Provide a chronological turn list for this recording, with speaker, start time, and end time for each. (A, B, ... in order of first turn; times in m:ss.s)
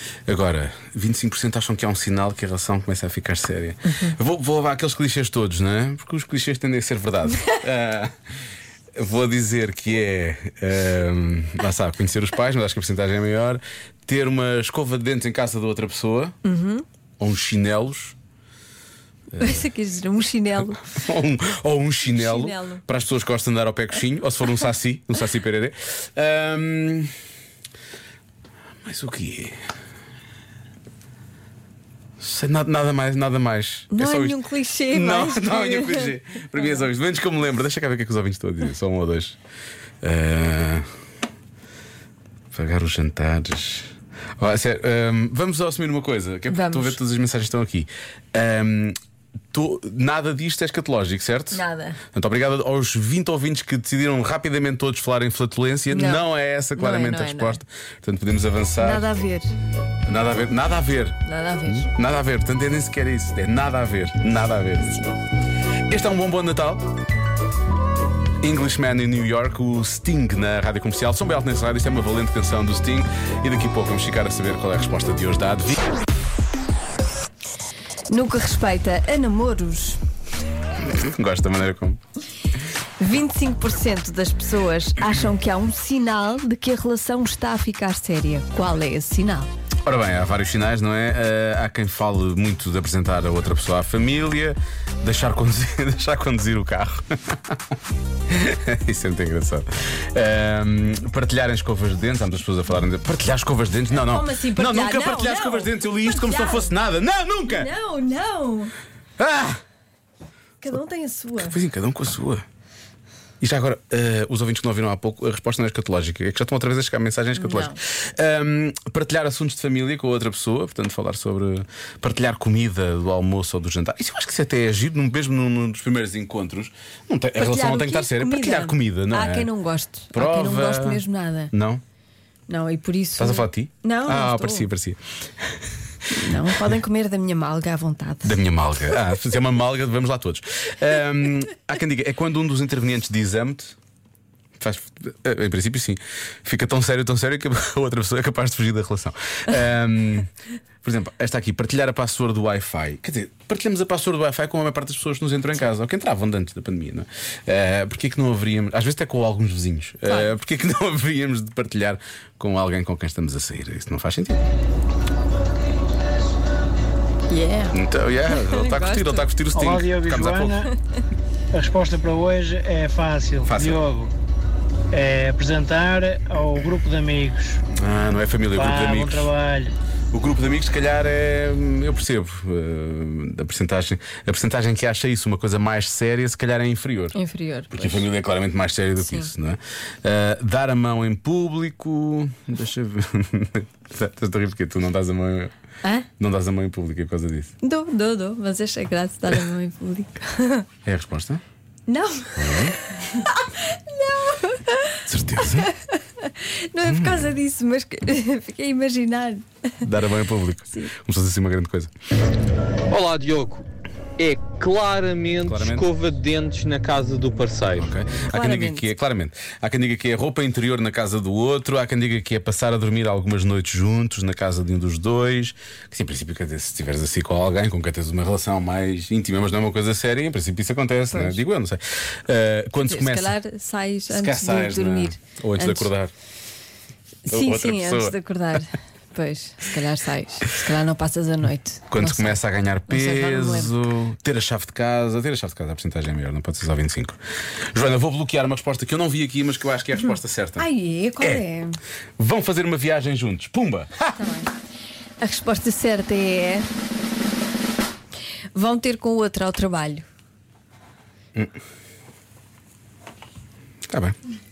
0:00.3-0:08.1 A
0:03.8-0:04.2 B
0:09.0-0:16.4 A
0:16.4-0:16.8 B
0:17.2-0:18.1 A
0:19.3-0:19.6 A
0:19.4-0:20.9 B
0:20.9-0:27.1 A
0:22.0-0:22.8 B
0:28.8-0:29.6 A
0:32.2-0:39.4 A
0:33.9-0:36.8 B
0:40.0-0:40.8 A
0:42.5-0:49.0 A
0:46.5-0:47.0 B
0:49.5-0:51.6 A
0:51.5-0:52.0 B
0:52.1-0:59.1 A
0:55.9-0:56.2 B
0:56.7-0:57.6 B
0:58.8-0:59.5 B
1:00.0-1:05.0 A
1:01.2-1:01.9 B
1:05.9-1:06.9 A
1:08.4-1:15.8 A
1:18.1-1:20.0 B
1:20.8-1:22.0 A
1:23.0-1:29.5 B
1:29.8-1:37.6 A
1:38.3-1:47.7 A
1:44.0-1:46.7 B
1:47.5-1:48.7 B
1:49.2-1:49.6 A
1:50.6-1:51.6 B
1:51.4-1:52.4 A
1:53.4-2:09.5 A
1:57.3-1:57.8 B
2:07.4-2:11.5 B
2:10.1-2:11.8 A
2:12.5-2:14.7 B
2:13.2-2:15.5 A
2:16.1-2:18.4 B
2:18.2-2:23.7 A
2:24.6-2:30.3 A
2:30.8-2:44.4 A
2:47.3-2:49.3 B
2:47.7-2:50.7 A
2:49.5-2:50.6 C
2:51.5-2:54.1 C
2:53.4-2:53.8 A
2:54.9-2:57.6 C
2:57.7-2:59.3 A
2:58.5-2:59.7 C
3:00.1-3:07.1 A
3:07.1-3:08.1 B
3:07.7-3:15.5 A
3:09.0-3:09.3 B
3:16.2-3:17.5 A
3:17.6-3:20.6 B
3:20.8-3:21.4 A
3:21.9-3:29.4 B
3:22.4-3:22.8 A
3:25.1-3:25.7 A
3:26.8-3:27.3 A
3:29.8-3:31.9 A
3:32.9-3:33.6 D
3:34.2-3:37.9 D
3:35.4-3:35.9 A
3:37.8-3:53.4 A
3:38.3-3:38.9 B
3:51.1-3:51.4 B
3:52.8-3:55.9 B
3:54.1-3:56.1 A
3:57.3-4:03.7 B
3:57.3-3:58.2 A
4:01.9-4:07.2 A
4:07.7-4:10.7 A
4:10.6-4:11.8 B
4:12.2-4:14.1 A
4:14.2-4:14.5 B
4:15.2-4:16.7 B
4:18.5-4:20.0 B
4:23.9-4:24.2 A